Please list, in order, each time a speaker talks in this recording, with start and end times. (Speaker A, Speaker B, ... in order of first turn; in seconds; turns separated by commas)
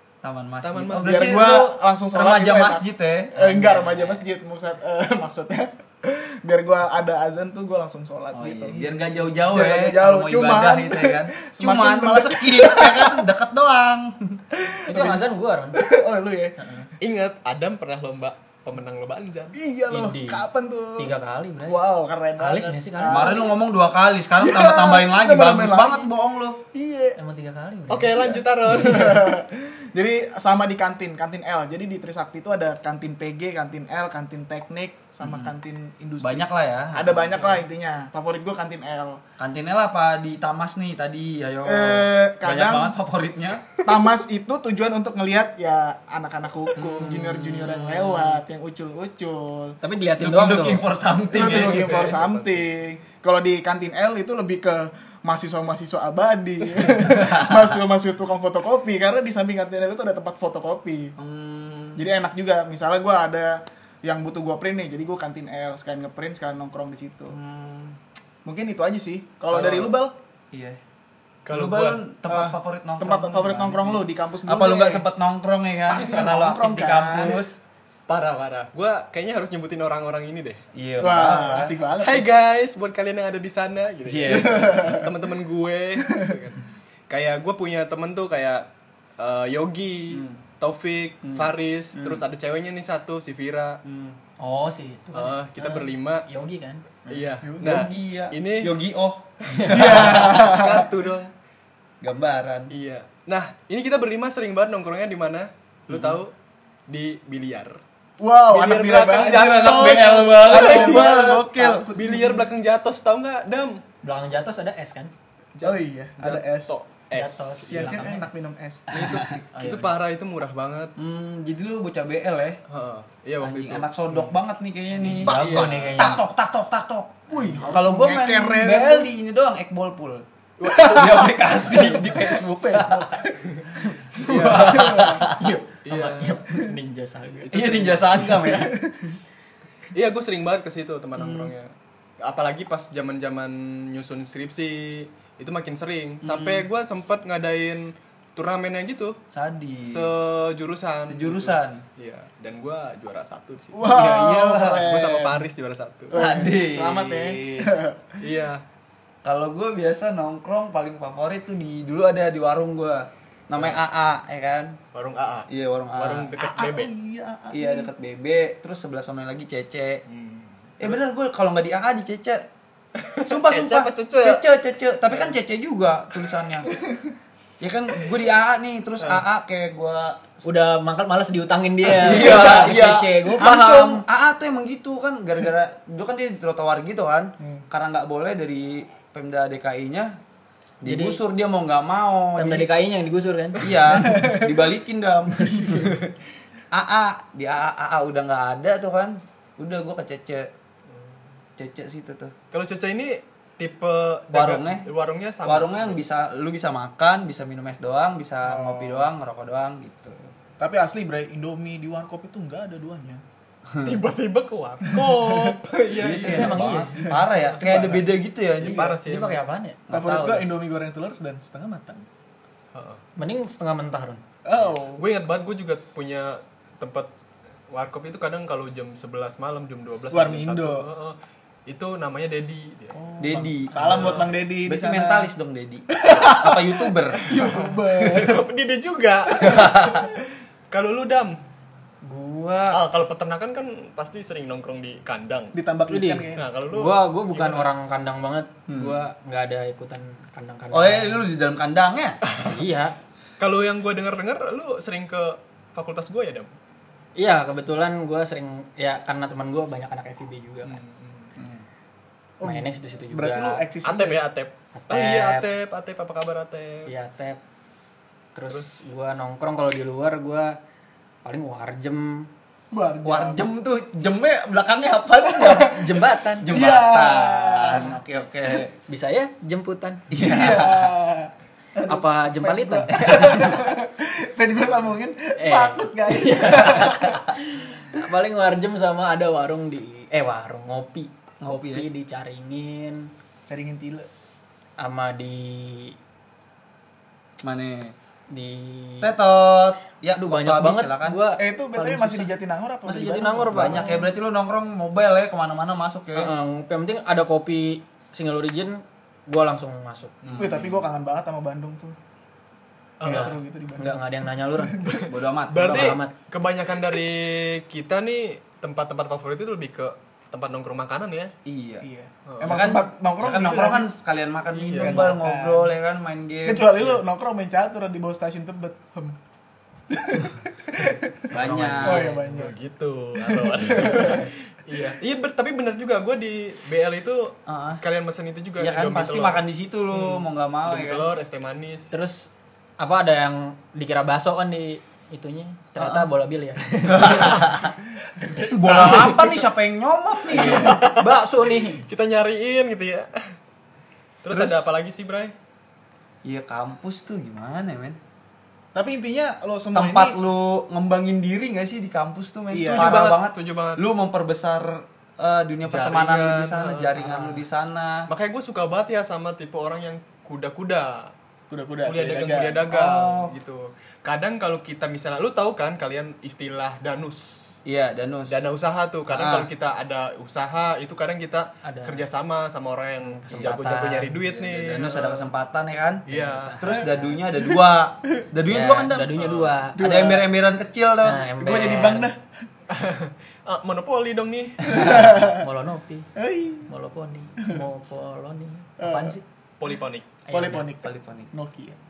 Speaker A: 0.2-3.8, Speaker B: 0.6-1.4, Speaker C: 1.0-8.8, Speaker D: 3.4-4.2, Speaker A: 8.3-14.4, Speaker D: 8.7-9.1, Speaker C: 9.4-13.2, Speaker C: 14.5-16.6, Speaker D: 14.9-15.8, Speaker D: 16.6-16.9, Speaker B: 17.0-19.6, Speaker C: 19.5-21.1, Speaker D: 19.9-21.8, Speaker C: 21.6-23.5, Speaker D: 22.4-23.5, Speaker A: 23.1-26.6, Speaker C: 24.4-26.1, Speaker C: 26.7-27.2, Speaker D: 27.1-28.3, Speaker B: 27.9-29.4, Speaker C: 28.1-39.2, Speaker A: 35.2-35.5, Speaker A: 36.2-37.6, Speaker A: 39.4-43.7, Speaker C: 41.6-43.0, Speaker C: 43.8-49.8, Speaker A: 46.7-48.4, Speaker D: 49.8-50.9, Speaker A: 50.2-52.2, Speaker C: 51.3-61.1, Speaker B: 51.3-52.7, Speaker A: 57.1-57.8, Speaker A: 61.2-62.1, Speaker C: 62.0-67.4, Speaker A: 67.3-68.0, Speaker C: 68.4-70.1, Speaker B: 69.5-69.8, Speaker A: 69.5-69.9, Speaker A: 70.5-70.8, Speaker B: 71.5-72.0, Speaker A: 71.5-77.6, Speaker C: 72.3-75.0, Speaker C: 75.9-77.4, Speaker B: 78.1-80.6, Speaker A: 80.7-81.8, Speaker C: 81.0-82.2, Speaker B: 81.3-88.7, Speaker A: 84.0-84.9, Speaker C: 84.2-85.1, Speaker B: 89.2-93.8, Speaker A: 90.1-90.4, Speaker A: 91.2-92.2, Speaker A: 93.8-94.2, Speaker D: 94.4-96.8, Speaker B: 95.1-96.2, Speaker B: 97.1-98.7, Speaker A: 97.4-100.5, Speaker B: 99.5-101.3, Speaker C: 99.7-100.9, Speaker A: 102.0-102.7, Speaker B: 102.7-106.3, Speaker A: 105.9-106.2, Speaker B: 106.9-107.8, Speaker C: 108.2-112.5, Speaker B: 108.5-111.2, Speaker A: 109.1-111.8, Speaker B: 111.9-113.8, Speaker D: 114.0-115.1, Speaker B: 115.6-118.2, Speaker C: 115.6-116.8, Speaker D: 117.1-118.3, Speaker C: 117.7-119.4, Speaker A: 118.9-119.4, Speaker B: 118.9-120.9, Speaker D: 119.5-119.9, Speaker A: 121.0-122.6, Speaker B: 122.7-124.3, Speaker A: 123.4-133.2, Speaker B: 125.0-125.9, Speaker D: 125.2-126.2, Speaker C: 127.3-129.1, Speaker D: 127.3-127.8, Speaker B: 130.6-131.7, Speaker C: 130.6-133.6, Speaker C: 134.2-135.3, Speaker A: 134.2-135.6, Speaker B: 134.2-134.9, Speaker D: 135.2-137.6, Speaker B: 135.8-136.4, Speaker B: 137.4-138.3, Speaker A: 137.5-138.7, Speaker C: 138.2-139.2, Speaker B: 139.9-141.7, Speaker A: 141.2-141.5, Speaker B: 142.2-149.2, Speaker A: 146.2-146.7, Speaker A: 149.3-150.1, Speaker B: 149.8-154.0, Speaker A: 151.1-151.8, Speaker C: 153.7-155.4, Speaker A: 153.8-154.9, Speaker B: 154.6-156.2, Speaker A: 156.1-157.2, Speaker C: 156.1-158.1, Speaker B: 157.1-158.6, Speaker A: 159.2-164.8, Speaker B: 163.5-163.8, Speaker B: 164.9-166.9, Speaker A: 165.5-166.3, Speaker C: 166.4-167.9, Speaker A: 167.5-170.0, Speaker B: 170.1-171.0, Speaker A: 170.8-172.4, Speaker B: 173.0-174.4, Speaker A: 173.2-176.7, Speaker A: 177.6-180.4, Speaker D: 180.4-184.0, Speaker A: 181.8-190.2, Speaker A: 190.8-192.7, Speaker D: 190.8-191.2, Speaker D: 192.3-193.9, Speaker A: 193.6-196.1, Speaker C: 194.0-194.5, Speaker A: 196.7-200.5, Speaker A: 201.6-202.3, Speaker B: 202.5-206.0, Speaker A: 204.3-204.9, Speaker A: 205.4-210.3, Speaker C: 208.4-209.1, Speaker C: 210.6-213.2, Speaker B: 213.8-216.7, Speaker C: 214.9-215.6, Speaker A: 215.9-219.0, Speaker D: 216.1-217.1, Speaker C: 217.0-218.0, Speaker B: 217.4-218.1, Speaker B: 218.6-219.4, Speaker D: 218.7-219.8, Speaker A: 219.9-220.5, Speaker C: 219.9-222.0, Speaker B: 222.7-223.0, Speaker D: 223.2-224.2, Speaker C: 224.4-225.0, Speaker B: 224.6-227.1, Speaker B: 227.7-233.0, Speaker C: 230.1-230.9, Speaker C: 232.9-235.3, Speaker A: 233.2-237.4, Speaker B: 233.8-234.3, Speaker C: 235.9-238.4, Speaker B: 237.3-240.1, Speaker A: 239.4-240.0, Speaker B: 240.7-241.4, Speaker D: 242.0-242.8, Speaker B: 242.7-245.5, Speaker C: 245.5-246.4, Speaker D: 245.9-251.2, Speaker B: 246.3-247.7, Speaker A: 248.7-249.0, Speaker A: 250.7-252.2, Speaker B: 252.2-252.6, Speaker D: 252.4-252.9, Speaker B: 253.4-256.5, Speaker D: 257.2-260.8, Speaker B: 260.6-261.3, Speaker A: 261.4-261.6, Speaker C: 262.4-264.2, Speaker D: 262.4-263.6, Speaker B: 263.8-266.9, Speaker D: 264.7-265.4, Speaker D: 266.9-267.4, Speaker D: 268.3-270.6, Speaker B: 268.5-268.8, Speaker D: 271.2-272.3, Speaker C: 272.7-273.5, Speaker A: 273.0-278.7, Speaker C: 275.3-275.9, Speaker D: 275.8-276.5, Speaker C: 276.5-278.0, Speaker D: 278.9-280.1, Speaker A: 280.1-280.9, Speaker C: 280.1-287.3, Speaker D: 281.9-283.5, Speaker A: 282.9-283.6, Speaker D: 285.4-293.1, Speaker A: 286.8-287.0, Speaker A: 291.4-291.9, Speaker C: 293.5-294.1, Speaker D: 294.8-295.9, Speaker A: 297.4-297.9, Speaker D: 298.3-299.1, Speaker A: 299.0-301.2, Speaker D: 300.2-302.3, Speaker C: 301.4-304.1, Speaker D: 302.8-304.0, Speaker A: 303.5-306.3, Speaker D: 306.1-310.1, Speaker B: 310.2-310.8, Speaker A: 310.2-310.7, Speaker C: 310.4-311.9, Speaker B: 313.0-313.4, Speaker C: 313.0-315.0, Speaker D: 313.1-314.8, Speaker B: 314.8-321.3, Speaker A: 315.1-316.0, Speaker D: 315.6-316.1, Speaker A: 321.4-321.9, Speaker C: 321.8-323.9, Speaker B: 322.2-322.7, Speaker A: 322.4-327.0, Speaker B: 324.6-325.1, Speaker C: 324.7-325.7, Speaker C: 326.4-329.2, Speaker C: 329.9-332.5, Speaker A: 331.3-332.1, Speaker D: 331.5-332.2, Speaker B: 331.6-341.9, Speaker C: 333.2-334.3, Speaker A: 337.5-337.8, Speaker A: 338.6-341.1, Speaker D: 341.9-347.6, Speaker A: 345.8-346.1, Speaker A: 346.8-347.7, Speaker B: 348.3-349.2, Speaker D: 348.4-348.9, Speaker A: 348.5-350.8, Speaker B: 350.3-351.1, Speaker D: 350.4-351.8, Speaker B: 351.7-353.3, Speaker B: 354.2-355.3, Speaker A: 354.3-354.7, Speaker A: 356.2-358.0, Speaker C: 358.7-360.2, Speaker A: 359.7-368.1, Speaker C: 362.5-363.1, Speaker B: 362.7-363.8, Speaker B: 365.7-367.2, Speaker D: 367.1-367.3, Speaker B: 368.1-371.1, Speaker C: 371.5-372.6, Speaker B: 371.8-377.6, Speaker A: 372.7-373.3, Speaker A: 377.6-378.5, Speaker B: 378.3-385.3, Speaker A: 379.1-379.5, Speaker D: 381.6-382.1, Speaker D: 383.0-384.2, Speaker A: 383.3-383.7, Speaker A: 384.2-386.1, Speaker B: 386.1-386.8, Speaker D: 386.1-387.1, Speaker A: 386.6-389.2, Speaker C: 387.3-387.6, Speaker D: 388.5-389.8, Speaker B: 389.1-389.6, Speaker C: 389.8-390.3, Speaker A: 389.8-391.6, Speaker D: 391.0-392.1, Speaker C: 391.4-392.2, Speaker B: 392.7-395.0, Speaker C: 394.6-395.4, Speaker D: 394.7-396.1, Speaker C: 396.1-396.7, Speaker D: 396.7-399.2, Speaker C: 398.8-399.2, Speaker B: 399.6-400.1, Speaker D: 400.3-400.7, Speaker C: 400.3-401.8, Speaker A: 400.8-401.3